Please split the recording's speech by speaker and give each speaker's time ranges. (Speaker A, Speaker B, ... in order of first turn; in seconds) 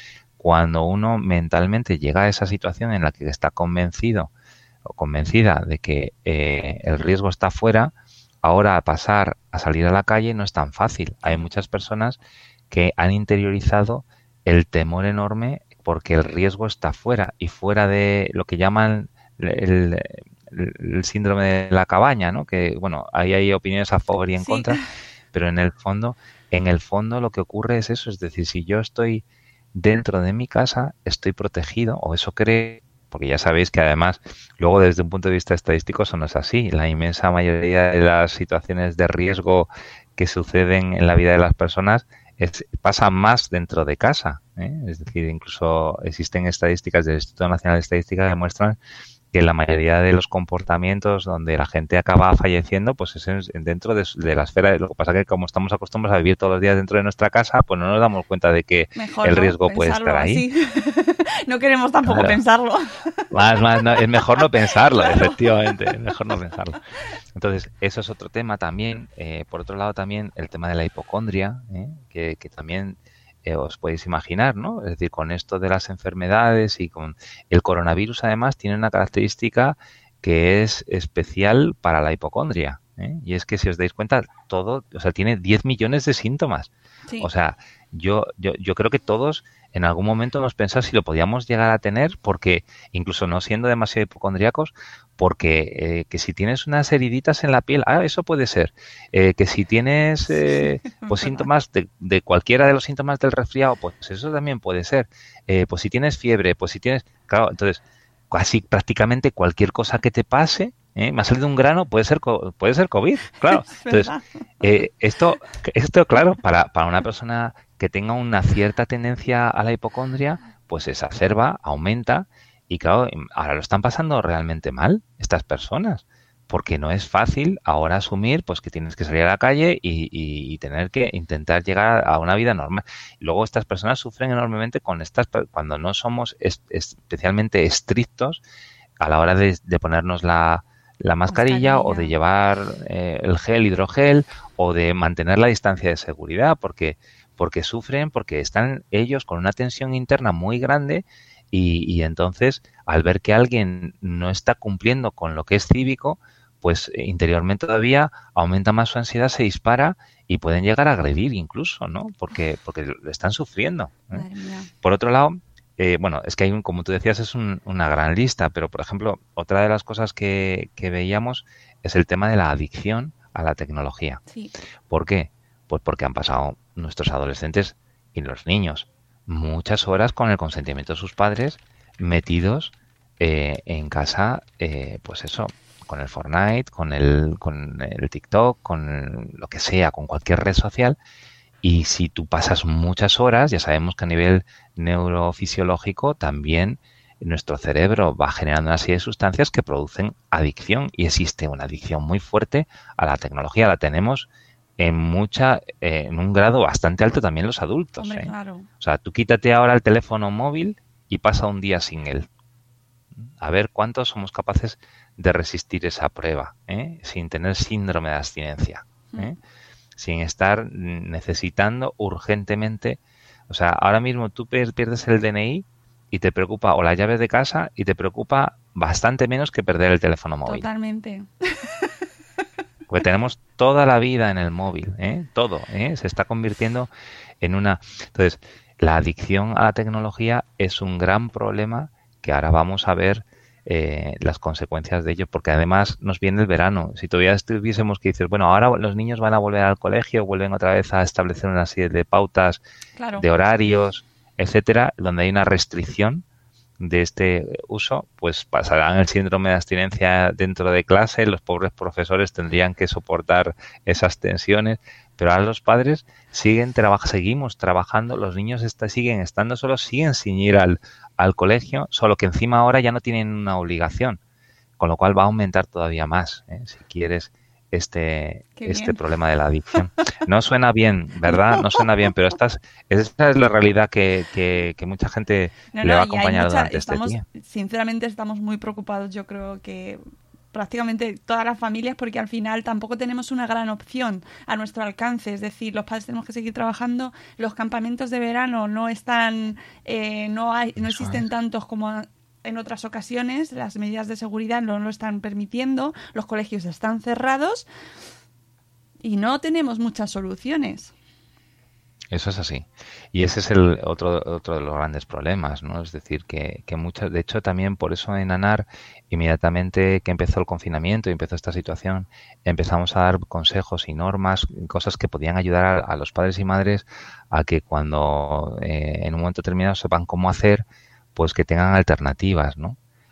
Speaker A: 0.4-4.3, 4.9-12.2, 12.7-24.8, 25.3-48.8, 49.3-60.5, 62.0-62.4, 63.3-66.8, 67.3-138.4, 139.0-164.2, 164.8-174.2, 174.9-191.0, 191.6-212.3, 213.3-219.4, 220.0-230.7, 232.9-236.9, 237.4-252.6, 253.2-256.2, 256.8-274.2, 274.8-287.2, 300.8-301.2, 312.1-332.8
Speaker B: 24.4-24.8, 59.0-65.4, 100.3-101.5, 113.5-114.8, 141.3-142.1, 164.1-164.7, 174.3-174.5, 208.0-208.7, 230.4-231.9, 253.0-253.3, 278.6-279.0, 281.3-281.8, 285.7-290.0, 290.5-307.6, 309.0-310.9